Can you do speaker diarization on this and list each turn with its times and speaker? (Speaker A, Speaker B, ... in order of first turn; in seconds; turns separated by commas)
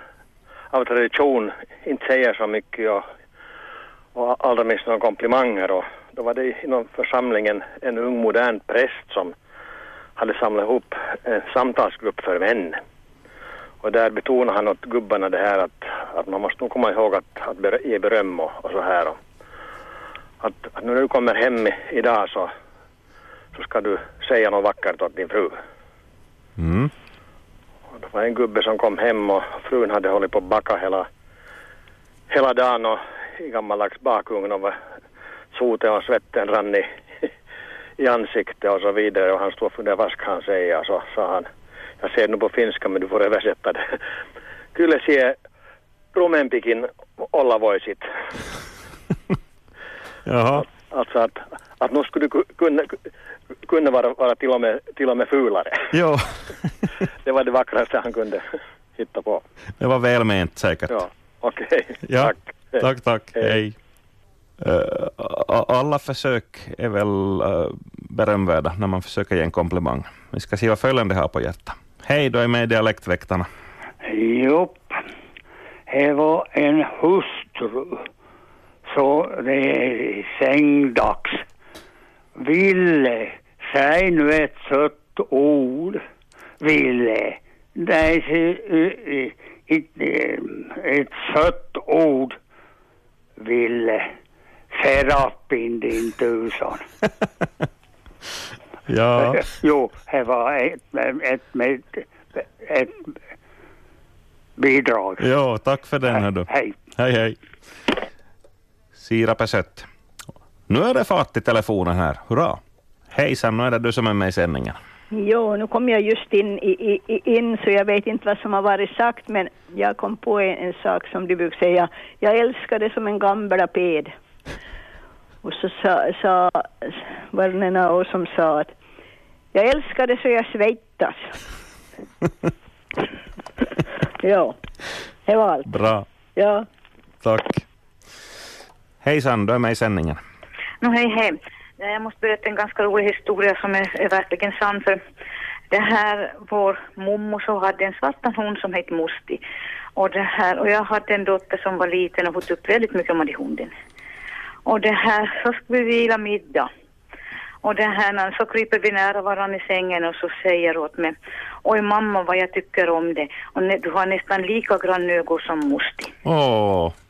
Speaker A: 0.7-3.1, Speaker A: 4.2-9.3, Speaker A: 10.2-12.8, Speaker A: 13.8-19.2, Speaker A: 20.4-22.5, Speaker A: 23.5-25.6, Speaker B: 26.6-26.9, Speaker A: 27.9-31.1, Speaker A: 32.3-34.8, Speaker A: 35.5-36.9, Speaker A: 38.0-41.5, Speaker A: 42.0-43.9, Speaker A: 44.7-45.4, Speaker A: 46.1-48.1, Speaker B: 50.3-50.6, Speaker A: 50.6-53.0, Speaker A: 53.6-55.9, Speaker B: 55.9-56.9, Speaker A: 57.2-58.4, Speaker A: 59.0-59.4, Speaker B: 59.8-61.0, Speaker A: 60.9-62.8, Speaker B: 62.0-63.8, Speaker B: 64.6-73.5, Speaker C: 74.0-75.0, Speaker C: 75.9-78.1, Speaker C: 78.9-81.4, Speaker C: 82.4-86.0, Speaker C: 86.6-92.4, Speaker C: 93.4-94.1, Speaker C: 94.7-96.9, Speaker B: 98.9-99.4, Speaker C: 99.2-102.0, Speaker C: 102.6-103.0, Speaker C: 104.6-105.3, Speaker B: 105.2-107.4, Speaker C: 106.1-106.8, Speaker B: 109.0-109.9, Speaker B: 110.7-112.6, Speaker B: 113.1-114.8, Speaker D: 115.2-124.1, Speaker D: 125.5-126.5, Speaker D: 127.3-128.7, Speaker D: 129.6-131.2, Speaker D: 134.2-134.5, Speaker B: 135.7-136.1, Speaker B: 137.2-137.6, Speaker B: 139.0-140.2, Speaker E: 140.8-145.0, Speaker E: 145.7-149.4, Speaker E: 149.9-153.7, Speaker E: 154.7-156.7, Speaker E: 157.6-166.1, Speaker B: 166.2-166.9